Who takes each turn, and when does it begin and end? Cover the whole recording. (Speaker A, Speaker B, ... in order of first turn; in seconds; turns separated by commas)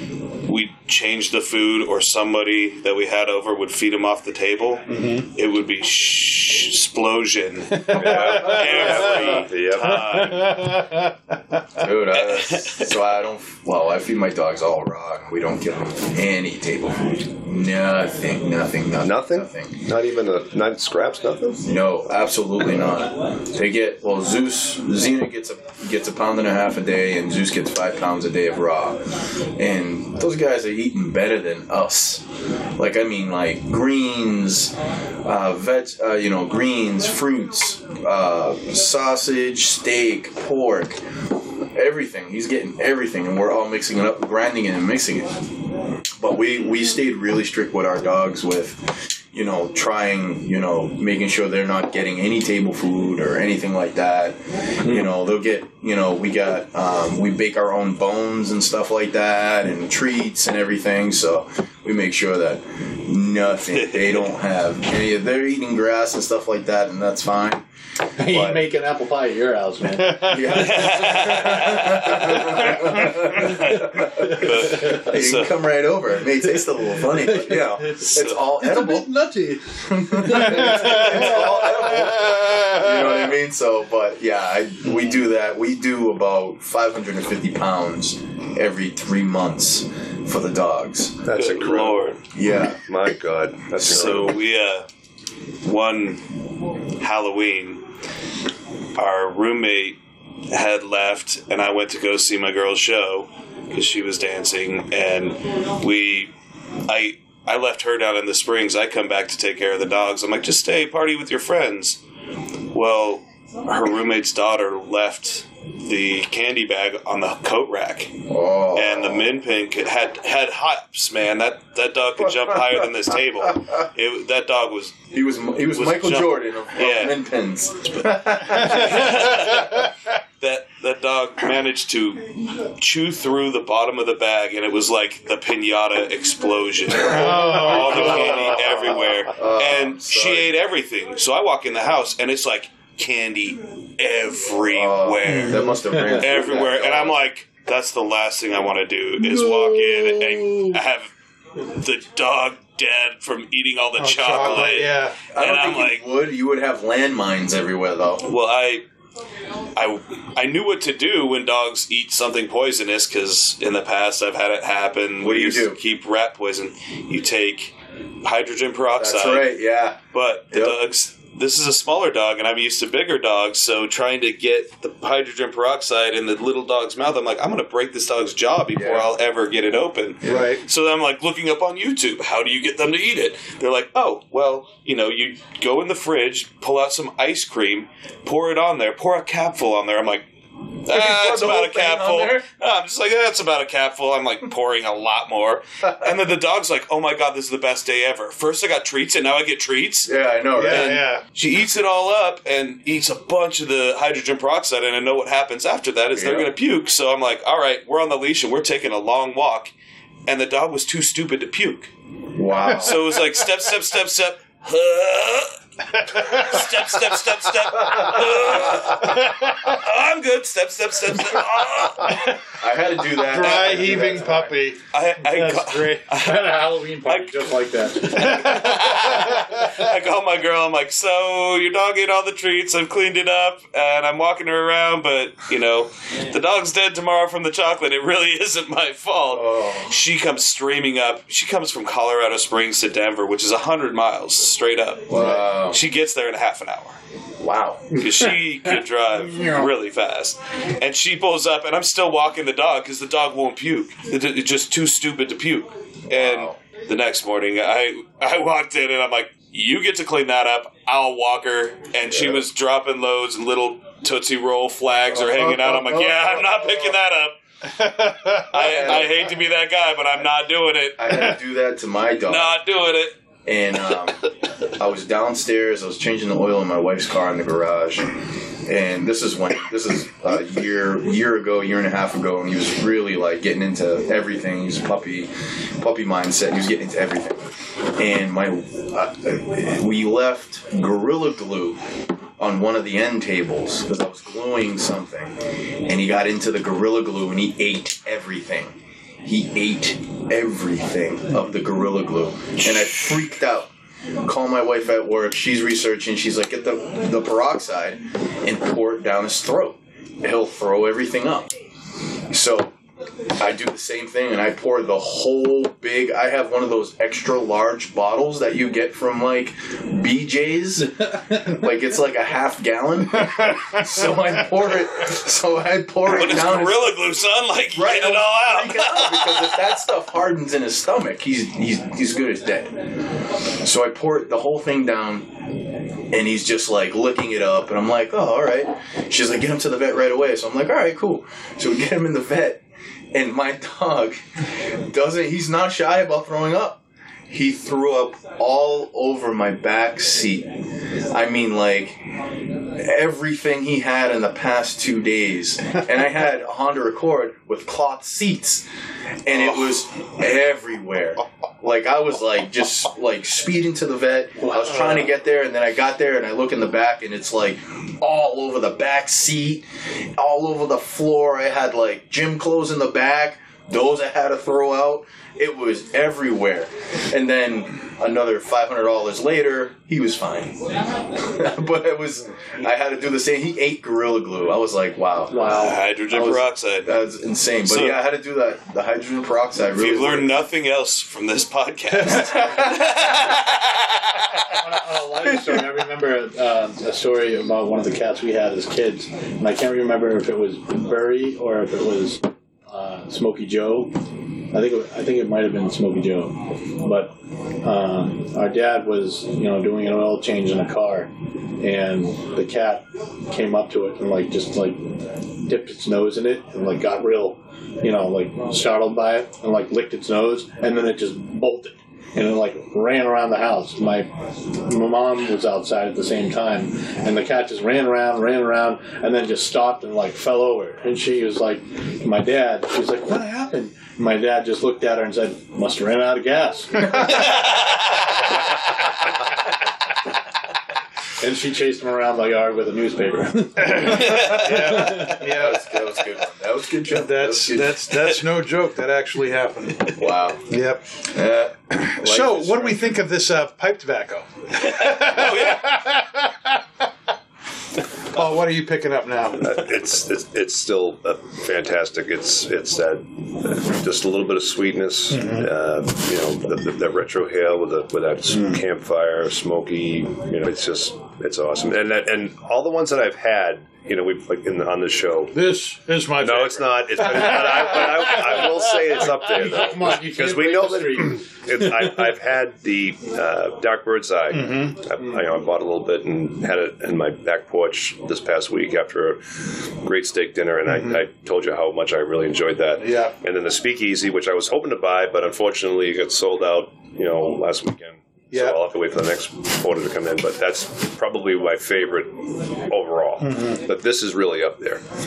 Speaker A: 0.4-10.6, Speaker B: 4.9-5.3, Speaker B: 7.7-11.8, Speaker C: 7.9-10.0, Speaker D: 11.8-19.7, Speaker A: 12.1-12.9, Speaker C: 19.0-21.7, Speaker D: 21.6-29.0, Speaker D: 29.6-32.2, Speaker D: 32.8-41.0, Speaker D: 41.7-45.4, Speaker D: 46.2-67.6, Speaker A: 63.7-64.2, Speaker E: 68.2-70.8, Speaker C: 68.3-68.6, Speaker B: 70.0-70.4, Speaker D: 70.2-79.1, Speaker A: 70.5-75.6, Speaker E: 77.1-82.0, Speaker A: 77.9-78.4, Speaker D: 79.9-91.2, Speaker C: 91.2-92.0, Speaker A: 91.3-92.2, Speaker D: 92.3-92.8, Speaker C: 92.7-94.4, Speaker A: 93.8-94.9, Speaker A: 95.6-96.2, Speaker A: 97.0-97.8, Speaker A: 99.0-100.0, Speaker A: 100.5-106.3, Speaker A: 106.8-112.0, Speaker A: 112.7-118.2, Speaker D: 118.3-119.3, Speaker A: 118.7-125.1, Speaker D: 125.1-129.2, Speaker A: 125.7-127.2, Speaker A: 127.9-156.0, Speaker D: 137.0-140.5, Speaker B: 137.0-138.7, Speaker D: 144.7-147.2, Speaker B: 145.2-145.8, Speaker E: 145.9-146.2, Speaker E: 149.4-149.9, Speaker B: 154.0-155.2, Speaker D: 155.3-158.3, Speaker A: 158.2-158.8, Speaker A: 159.8-169.5, Speaker D: 165.2-165.8, Speaker D: 169.0-170.8, Speaker A: 170.1-190.3, Speaker D: 178.7-179.1, Speaker B: 180.2-180.6, Speaker A: 190.8-200.1, Speaker D: 190.9-192.4, Speaker D: 200.1-201.0, Speaker B: 200.6-201.2, Speaker A: 200.7-209.7, Speaker D: 206.1-206.5, Speaker A: 210.3-211.9, Speaker D: 212.3-213.0, Speaker A: 212.7-215.6, Speaker A: 216.1-222.3, Speaker B: 216.1-216.6, Speaker D: 217.8-218.2, Speaker B: 219.0-219.7, Speaker B: 222.1-222.3, Speaker D: 222.6-224.5, Speaker B: 223.1-226.1, Speaker A: 223.4-223.9, Speaker A: 224.9-247.0, Speaker E: 226.1-228.5, Speaker B: 228.1-229.7, Speaker D: 239.3-239.9, Speaker D: 245.1-245.8, Speaker D: 247.4-248.1, Speaker A: 247.9-267.4, Speaker D: 256.1-256.6, Speaker D: 262.1-262.4, Speaker D: 265.1-266.9, Speaker B: 267.6-268.7, Speaker A: 268.5-271.3, Speaker D: 268.6-269.4, Speaker D: 271.0-272.6, Speaker A: 272.3-273.2, Speaker D: 273.4-278.1, Speaker D: 278.6-291.8, Speaker D: 292.4-303.7, Speaker D: 304.2-311.5, Speaker D: 312.3-312.7, Speaker D: 313.4-326.9, Speaker A: 326.1-329.7, Speaker D: 327.7-332.8, Speaker D: 333.6-335.3, Speaker D: 336.1-344.2, Speaker D: 344.9-350.6, Speaker D: 351.1-352.0, Speaker D: 352.7-358.6, Speaker D: 359.2-380.6, Speaker E: 364.4-365.1, Speaker D: 381.2-385.3, Speaker E: 385.3-385.9, Speaker A: 385.4-387.0, Speaker D: 386.1-390.3, Speaker A: 387.6-388.0, Speaker A: 389.7-394.3, Speaker D: 392.1-392.8, Speaker E: 394.5-403.9, Speaker E: 404.5-436.9, Speaker A: 437.0-437.8, Speaker E: 441.2-444.1, Speaker B: 443.6-445.8, Speaker A: 443.8-445.2, Speaker D: 444.9-447.8, Speaker B: 446.9-451.0, Speaker D: 449.9-450.4, Speaker D: 451.1-452.9, Speaker B: 451.7-456.5, Speaker A: 454.6-455.7, Speaker B: 458.1-459.6, Speaker C: 459.4-475.4, Speaker B: 465.1-465.5, Speaker B: 468.3-468.6, Speaker B: 475.3-478.5, Speaker C: 476.2-504.8, Speaker E: 479.1-481.2, Speaker B: 484.3-484.8, Speaker B: 490.7-491.0, Speaker B: 492.8-493.1, Speaker B: 503.2-503.6